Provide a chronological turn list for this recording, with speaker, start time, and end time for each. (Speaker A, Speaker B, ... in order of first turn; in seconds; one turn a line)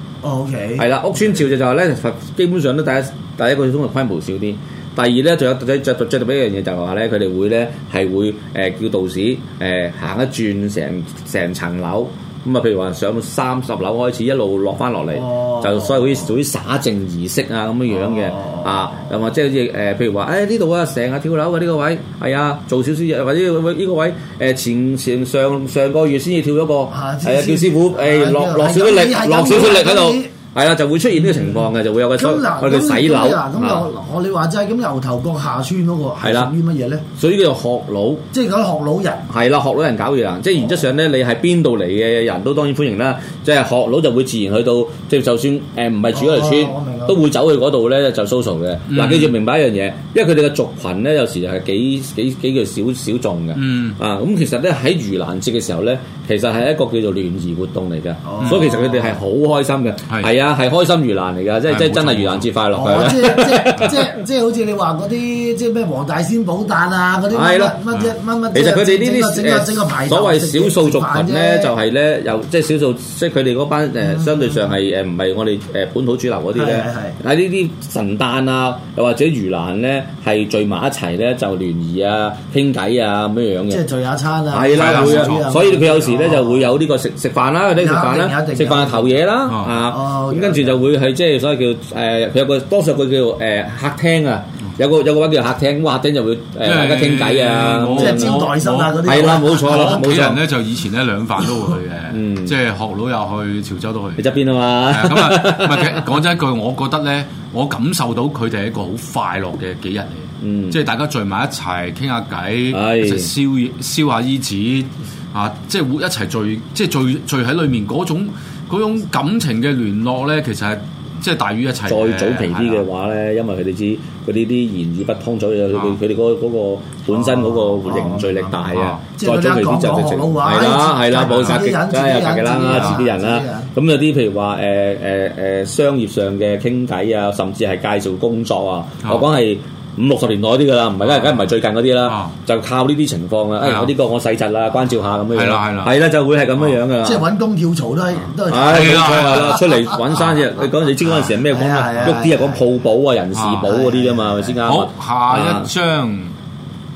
Speaker A: 0.2-0.9
Speaker B: 0.8-33.9
Speaker A: 15.2-16.2
Speaker A: 17.9-19.0
Speaker A: 26.9-30.3
Speaker A: 32.2-37.0
Speaker B: 36.2-36.5
Speaker B: 37.2-38.2
Speaker A: 38.3-39.3
Speaker B: 39.3-64.0
Speaker A: 46.1-47.2
Speaker C: 48.9-49.3
Speaker C: 53.5-54.0
Speaker A: 58.3-59.1
Speaker C: 61.7-62.5
Speaker A: 62.7-71.7
Speaker B: 67.3-67.8
Speaker B: 68.5-83.8
Speaker A: 74.0-74.7
Speaker A: 76.5-77.2
Speaker A: 83.7-86.7
Speaker B: 84.5-98.5
Speaker C: 84.8-85.4
Speaker A: 87.8-89.2
Speaker C: 89.5-89.8
Speaker A: 89.8-90.8
Speaker C: 96.6-104.2
Speaker A: 97.9-100.3
Speaker B: 99.0-100.4
Speaker B: 102.1-102.5
Speaker B: 104.2-106.0
Speaker C: 104.9-122.8
Speaker B: 110.4-110.8
Speaker B: 112.7-113.3
Speaker B: 121.9-147.2
Speaker A: 127.1-128.6
Speaker C: 128.7-129.0
Speaker A: 129.2-133.7
Speaker C: 131.3-131.6
Speaker C: 132.7-133.0
Speaker C: 142.1-142.3
Speaker C: 143.6-143.9
Speaker C: 145.3-145.9
Speaker A: 147.0-149.5
Speaker B: 148.5-155.7
Speaker C: 148.7-150.3
Speaker A: 151.0-152.6
Speaker C: 153.3-153.7
Speaker A: 153.6-154.6
Speaker C: 154.7-156.3